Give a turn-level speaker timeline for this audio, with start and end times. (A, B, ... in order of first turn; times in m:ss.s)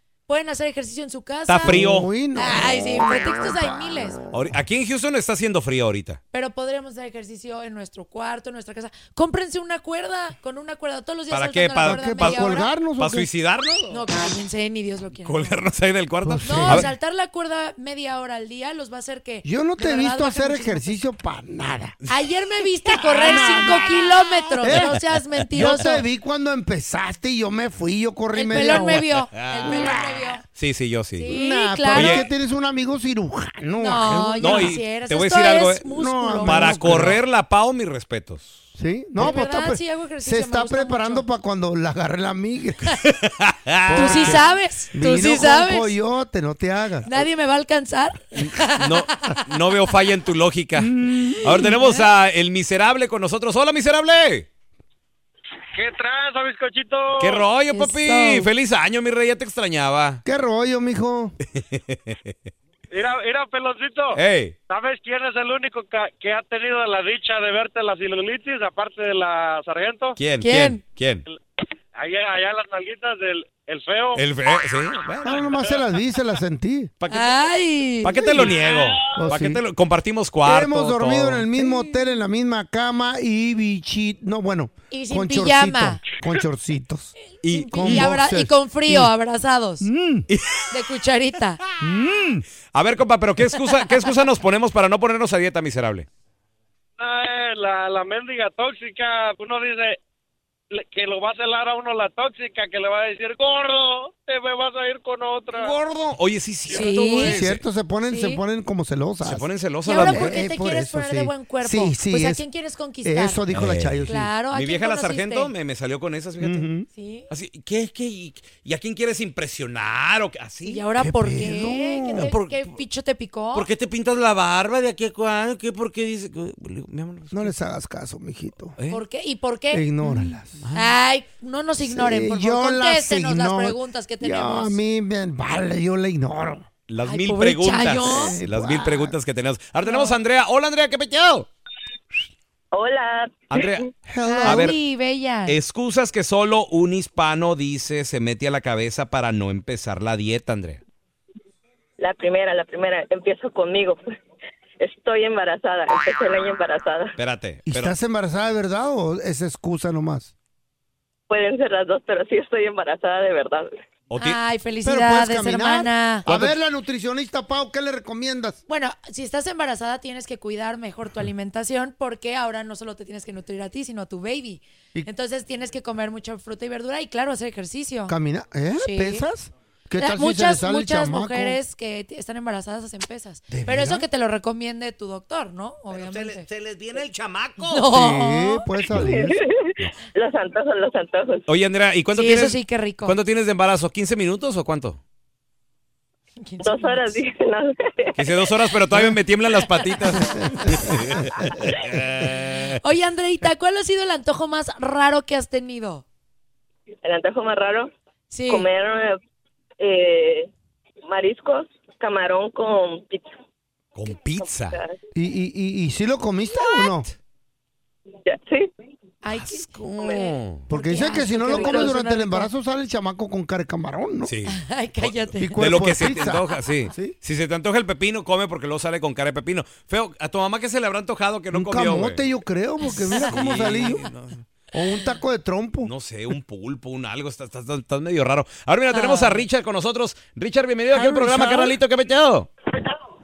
0:00.3-0:01.8 A
0:01.5-0:02.1 B
0:01.6-0:04.3 C
0:02.3-0:04.2 A
0:04.3-0:06.2 B
0:06.3-0:12.7 A
0:11.3-0:14.0 B
0:11.8-0:13.3 C
0:13.9-0:15.6 A
0:15.2-0:16.9 B
0:16.2-0:16.9 C
0:16.4-0:20.9 A
0:19.4-0:21.9 C
0:22.1-0:26.0 A
0:23.0-0:25.0 C
0:23.0-0:23.7 B
0:24.6-0:24.9 B
0:25.5-0:30.2 C
0:28.3-0:30.4 A
0:28.7-0:29.9 B
0:30.5-0:31.3 B
0:31.2-0:32.2 A
0:31.3-0:34.8 C
0:31.9-0:32.2 B
0:33.8-0:37.1 A
0:34.4-0:35.8 B
0:35.9-0:37.2 C
0:36.4-0:38.6 B
0:38.7-0:43.0 C
0:39.2-0:41.2 A
0:43.0-0:44.4 B
0:43.8-0:47.2 C
0:43.9-0:46.0 A
0:47.0-0:49.4 A
0:48.3-0:54.5 B
0:50.8-0:51.7 C
0:51.6-0:52.0 A
0:55.7-0:57.4 D
0:57.2-1:00.2 B
0:57.7-0:58.5 A
1:00.2-1:01.4 C
1:01.5-1:02.3 B
1:02.9-1:10.2 D
1:04.1-1:04.5 B
1:10.2-1:11.2 B
1:10.4-1:10.8 A
1:12.0-1:14.2 D
1:14.1-1:15.5 B
1:15.2-1:16.9 C
1:17.0-1:17.5 B
1:17.1-1:18.5 A
1:18.0-1:21.5 B
1:18.7-1:19.2 D
1:19.2-1:19.6 C
1:20.4-1:27.1 C
1:21.6-1:22.1 A
1:24.9-1:26.0 A
1:27.4-1:28.1 B
1:27.4-1:29.9 A
1:27.7-1:29.1 C
1:29.8-1:30.3 C
1:30.3-1:30.7 B
1:30.7-1:31.6 A
1:31.8-1:32.4 C
1:32.7-1:36.1 B
1:37.0-1:40.0 D
1:40.7-1:45.8 D
1:45.5-1:47.6 B
1:46.7-1:47.4 A
1:47.2-1:52.4 C
1:48.0-1:48.4 A
1:49.2-1:50.4 B
1:49.8-1:53.4 A
1:53.0-1:54.3 C
1:53.5-1:56.7 B
1:54.0-1:55.5 A
1:56.4-1:56.9 C
1:56.9-1:57.3 A
1:57.3-2:00.8 B
2:00.6-2:03.7 A
2:01.0-2:02.3 C
2:02.1-2:02.8 B
2:03.5-2:07.5 B
2:07.3-2:08.8 C
2:08.9-2:09.9 A
2:09.7-2:10.6 C
2:10.6-2:10.9 B
2:10.7-2:14.8 A
2:11.8-2:16.7 C
2:16.9-2:21.5 B
2:17.0-2:18.4 A
2:17.8-2:19.2 C
2:19.8-2:20.2 A
2:22.7-2:23.8 E
2:23.5-2:23.8 B
2:24.1-2:24.7 C
2:24.2-2:25.6 A
2:24.4-2:24.8 B
2:25.5-2:30.8 B
2:32.0-2:34.0 E
2:34.8-2:37.1 E
2:37.2-2:37.9 B
2:37.6-2:40.3 C
2:41.3-2:43.7 E
2:44.1-2:44.4 B
2:44.2-2:46.3 A
2:44.8-2:48.6 C
2:46.3-2:46.6 B
2:48.7-2:58.1 A
2:58.1-3:01.6 C
2:58.8-2:59.2 A
3:00.0-3:06.4 A
3:03.5-3:04.0 C
3:05.9-3:07.9 B
3:07.6-3:08.7 A
3:07.9-3:09.4 C
3:09.0-3:11.4 E
3:11.5-3:15.0 B
3:12.1-3:13.2 A
3:16.4-3:17.2 A
3:16.6-3:18.7 E
3:18.2-3:22.8 B
3:18.9-3:19.2 C
3:19.8-3:21.4 A
3:20.1-3:21.0 C
3:22.2-3:26.0 A
3:27.0-3:27.9 E
3:28.3-3:28.7 A
3:28.5-3:29.2 E
3:29.8-3:30.5 E
3:31.1-3:33.3 E
3:33.9-3:34.8 B
3:34.1-3:35.0 E
3:35.1-3:37.1 C
3:38.2-3:38.7 E
3:39.2-3:42.5 A
3:39.3-3:40.7 B
3:40.0-3:40.3 E
3:40.7-3:44.3 C
3:41.6-3:41.9 B
3:44.2-3:52.2 B
3:44.5-3:45.9 A
3:45.4-3:47.2 C
3:51.5-3:54.1 C
3:52.8-3:53.9 A
3:53.2-3:54.4 B
3:54.7-3:55.9 C
3:55.8-4:02.5 B
3:58.9-3:59.4 A
4:00.9-4:01.7 C